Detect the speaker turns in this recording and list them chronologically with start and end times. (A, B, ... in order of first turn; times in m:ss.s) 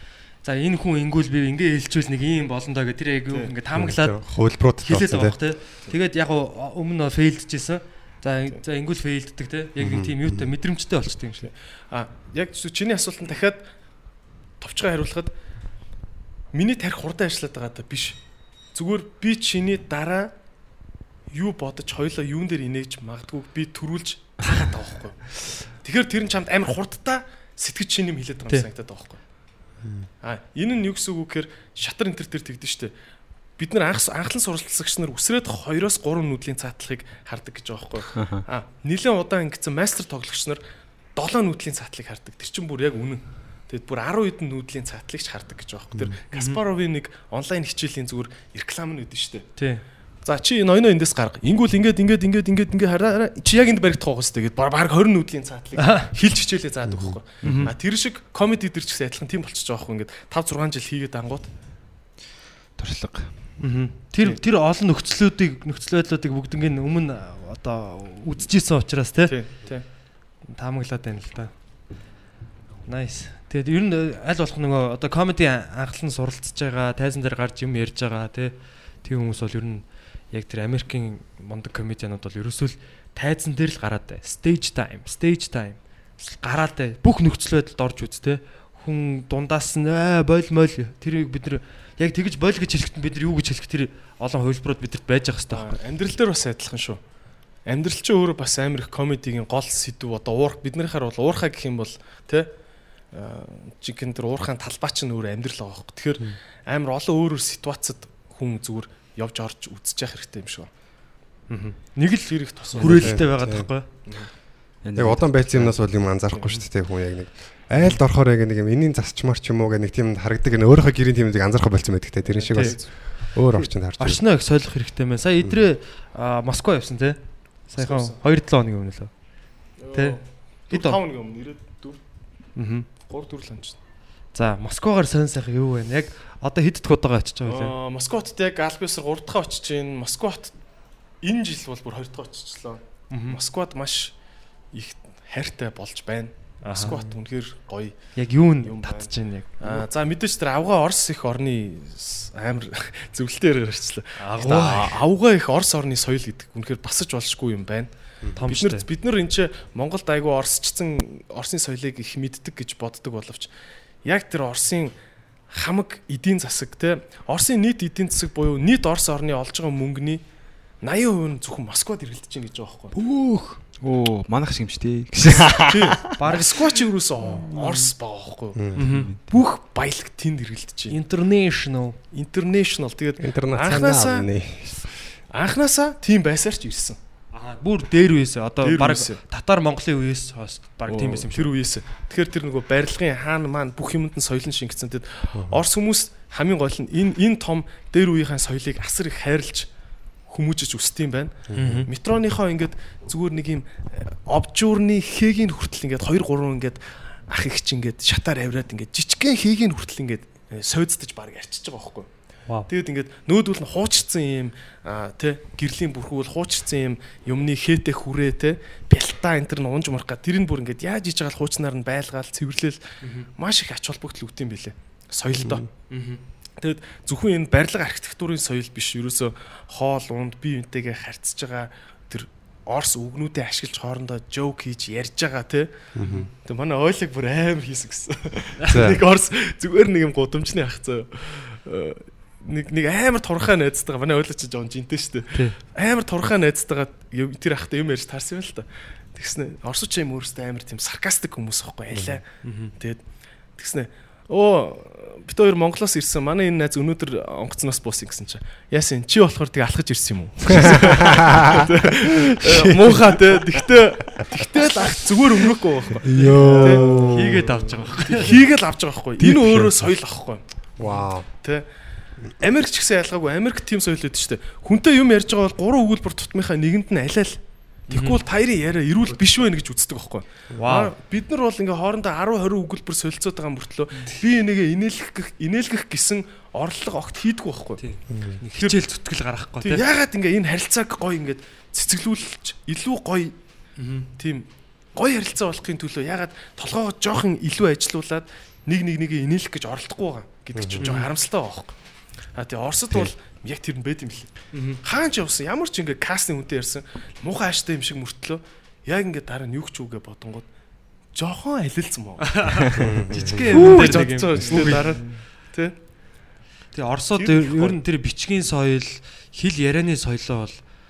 0:00.4-0:04.2 A
0:03.7-0:05.4 B
0:04.8-0:11.5 A
0:09.8-0:10.5 B
0:11.4-0:13.6 C
0:14.6-0:15.3 C
0:16.5-0:18.2 C
0:18.7-0:20.3 C
0:21.3-0:29.2 C
0:29.8-0:30.1 B
0:30.2-0:32.9 C
0:33.6-0:40.6 C
0:38.1-0:38.4 D
0:41.1-0:49.5 C
0:46.3-0:46.6 A
0:49.6-0:49.8 A
0:50.2-1:01.5 C
0:55.8-0:56.1 A
0:56.8-0:57.2 B
0:57.4-0:57.7 D
1:02.8-1:03.3 D
1:03.6-1:09.4 A
1:09.2-1:09.8 C
1:10.5-1:11.5 A
1:12.8-1:35.7 A
1:35.5-1:37.0 C
1:37.6-1:42.5 C
1:43.1-1:50.7 C
1:51.5-1:53.3 C
1:52.8-1:53.8 A
1:52.8-1:53.7 B
1:54.8-1:55.7 D
1:54.9-2:04.2 B
1:56.3-1:56.6 C
2:02.2-2:02.9 C
2:03.5-2:09.1 A
2:07.8-2:08.2 C
2:09.8-2:12.0 C
2:09.9-2:10.2 A
2:10.7-2:11.0 A
2:12.6-2:13.8 C
2:14.3-2:17.7 A
2:17.5-2:20.5 C
2:21.2-2:24.1 C
2:23.1-2:23.4 A
2:24.7-2:28.1 C
2:26.6-2:27.1 A
2:28.1-2:29.8 A
2:28.6-2:29.1 C
2:29.6-2:37.9 C
2:34.2-2:35.0 A
2:38.4-2:38.8 A
2:38.4-2:43.5 C
2:44.0-2:44.9 C
2:45.5-2:50.2 C
2:50.8-2:52.9 C
2:52.9-2:53.6 A
2:53.8-2:56.0 D
2:55.5-2:58.7 C
2:56.1-2:56.5 A
2:57.5-2:57.9 A
2:58.6-2:58.9 B
2:58.7-2:59.1 A
2:58.8-2:59.2 D
2:59.3-3:01.0 C
3:00.9-3:02.0 A
3:02.1-3:04.3 C
3:03.2-3:04.9 B
3:05.3-3:07.0 C
3:07.3-3:11.5 A
3:08.6-3:09.2 C
3:10.9-3:19.7 C
3:15.3-3:15.6 B
3:20.3-3:32.1 C
3:21.5-3:21.8 B
3:21.5-3:21.9 A
3:32.7-3:42.8 C
3:43.0-3:43.3 A
3:43.4-3:45.7 C
3:45.4-3:45.6 B
3:45.9-3:46.2 A
3:46.6-4:13.0 C
3:55.9-3:56.3 B
3:58.7-3:59.0 B
4:11.9-4:12.2 B
4:12.4-4:12.7 A
4:13.6-4:30.4 C
4:20.5-4:23.4 B
4:26.0-4:27.5 B
4:26.2-4:28.4 A
4:29.2-4:29.9 B
4:30.8-4:31.3 B
4:32.4-4:47.8 C
4:37.9-4:38.2 A
4:40.6-4:40.9 A
4:47.8-4:49.8 A
4:48.1-4:48.4 B
4:49.6-4:53.3 C
4:53.8-4:54.1 A
4:54.2-5:01.7 C
5:00.5-5:01.0 B
5:00.8-5:01.1 A
5:02.3-5:10.4 C
5:04.5-5:04.8 A
5:11.1-5:15.8 C
5:12.3-5:14.9 A
5:12.8-5:14.8 B
5:16.7-5:20.6 A
5:17.2-5:17.8 C